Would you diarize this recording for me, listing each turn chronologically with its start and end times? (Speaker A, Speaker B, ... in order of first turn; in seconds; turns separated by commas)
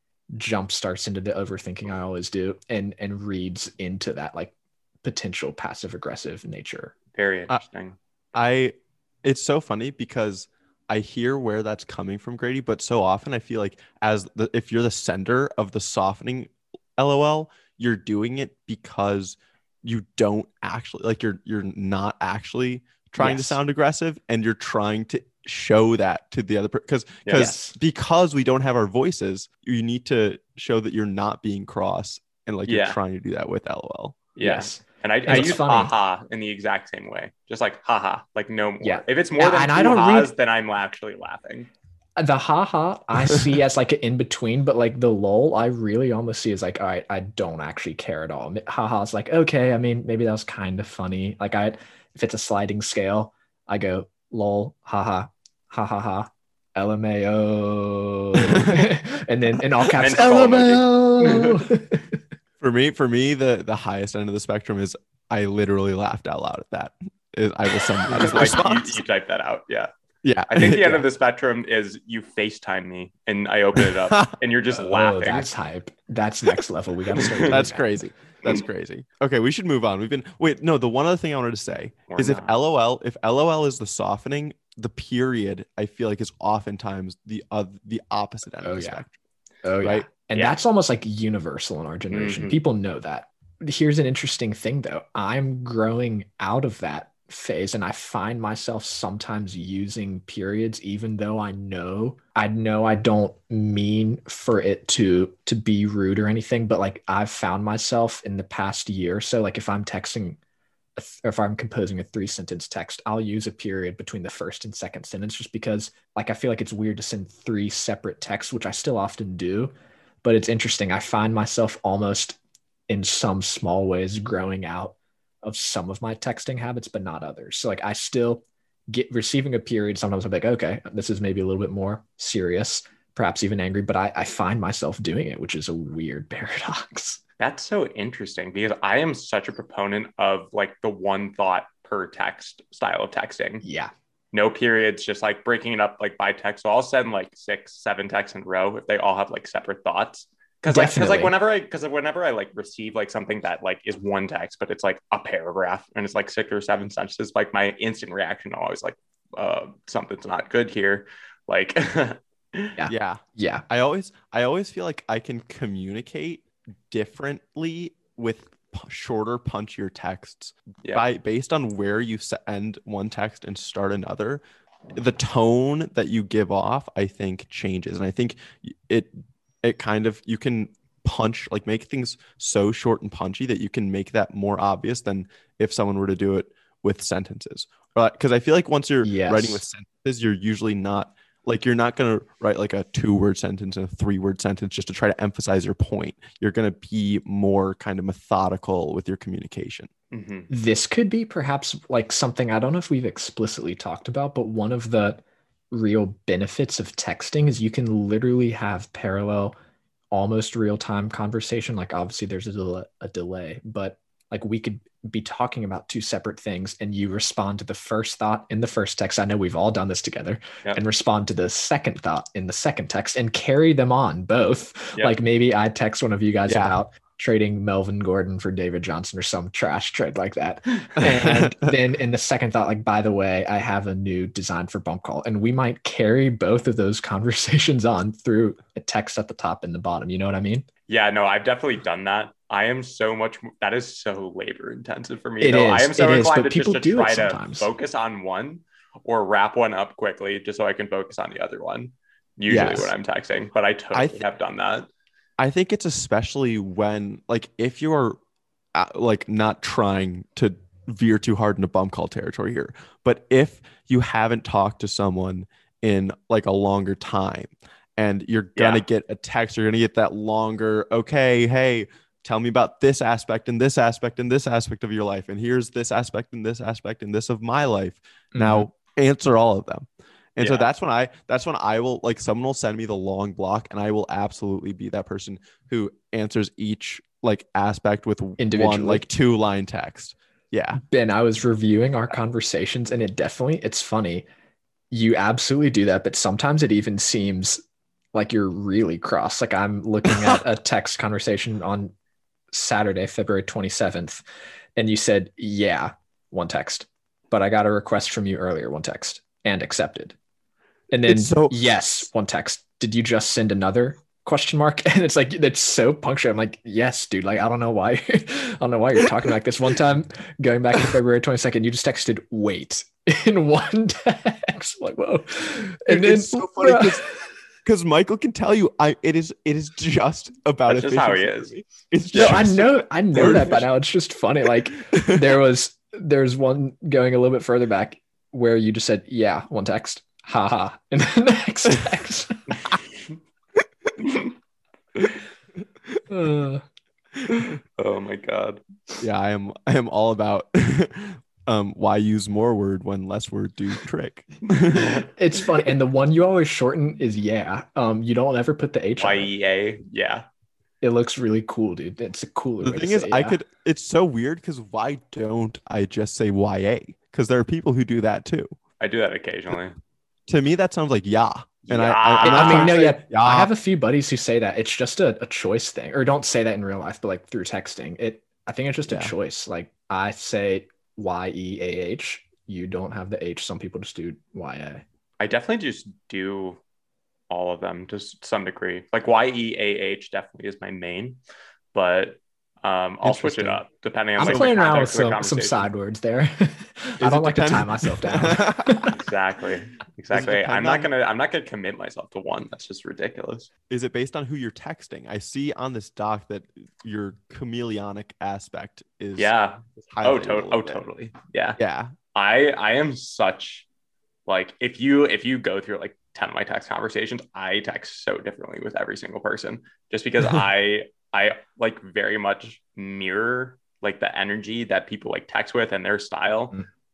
Speaker A: 0.3-6.9, Speaker B: 7.1-8.0, Speaker C: 8.3-34.2, Speaker A: 23.2-23.6, Speaker B: 27.2-27.5, Speaker A: 27.3-27.8, Speaker B: 32.6-33.0, Speaker B: 34.4-41.7, Speaker A: 34.4-35.9, Speaker A: 38.8-40.3, Speaker A: 42.1-62.0, Speaker C: 58.4-58.9, Speaker B: 59.9-61.6, Speaker C: 62.6-69.0, Speaker B: 68.1-69.9, Speaker C: 70.2-71.0, Speaker B: 70.5-75.5, Speaker C: 73.8-74.3, Speaker A: 74.7-77.8, Speaker B: 77.2-77.5, Speaker C: 77.5-89.1, Speaker B: 82.1-82.6, Speaker A: 88.6-89.0, Speaker A: 89.6-110.4, Speaker B: 90.3-90.6, Speaker B: 92.1-92.6, Speaker A: 111.0-119.7, Speaker A: 120.2-122.4, Speaker A: 122.9-137.2, Speaker B: 137.4-143.6, Speaker A: 143.6-143.9, Speaker B: 144.3-162.8, Speaker A: 150.7-151.3, Speaker A: 162.8-163.6, Speaker C: 162.9-174.4, Speaker C: 174.9-179.1, Speaker C: 179.6-199.9, Speaker A: 189.0-189.6, Speaker B: 200.1-200.5, Speaker A: 200.5-209.5, Speaker A: 210.1-240.7, Speaker C: 226.5-226.8, Speaker C: 231.0-231.5, Speaker B: 240.9-254.9, Speaker A: 245.4-247.7, Speaker C: 252.5-252.9, Speaker C: 253.9-254.2, Speaker C: 255.4-258.2, Speaker C: 258.7-290.8, Speaker B: 268.6-268.8, Speaker A: 278.3-278.7, Speaker B: 280.4-280.7, Speaker A: 288.4-289.0, Speaker A: 290.8-294.2, Speaker A: 294.9-297.6, Speaker A: 298.1-301.9, Speaker C: 300.1-300.4, Speaker A: 302.5-304.2, Speaker A: 304.8-310.1, Speaker A: 310.9-327.2, Speaker C: 311.1-311.8, Speaker C: 325.9-327.1, Speaker C: 327.6-333.6, Speaker B: 330.7-332.4, Speaker A: 332.1-342.6, Speaker C: 334.8-335.4, Speaker B: 344.0-344.3, Speaker A: 346.1-346.6, Speaker B: 347.8-348.6, Speaker C: 349.0-355.0, Speaker A: 354.9-359.3, Speaker B: 359.0-360.2, Speaker A: 360.8-363.4, Speaker C: 362.6-368.5, Speaker B: 368.8-369.8, Speaker C: 370.3-373.5, Speaker B: 371.6-372.8, Speaker A: 372.2-384.8, Speaker C: 378.9-379.1, Speaker B: 385.2-386.6, Speaker B: 387.3-391.2, Speaker B: 391.7-395.7, Speaker A: 393.0-393.6, Speaker A: 394.2-399.0, Speaker C: 394.2-394.5, Speaker C: 397.0-398.8, Speaker B: 398.9-403.5, Speaker C: 400.1-400.9, Speaker C: 403.7-410.8, Speaker B: 409.1-411.6, Speaker C: 411.6-411.9, Speaker B: 412.1-413.6, Speaker B: 414.3-426.5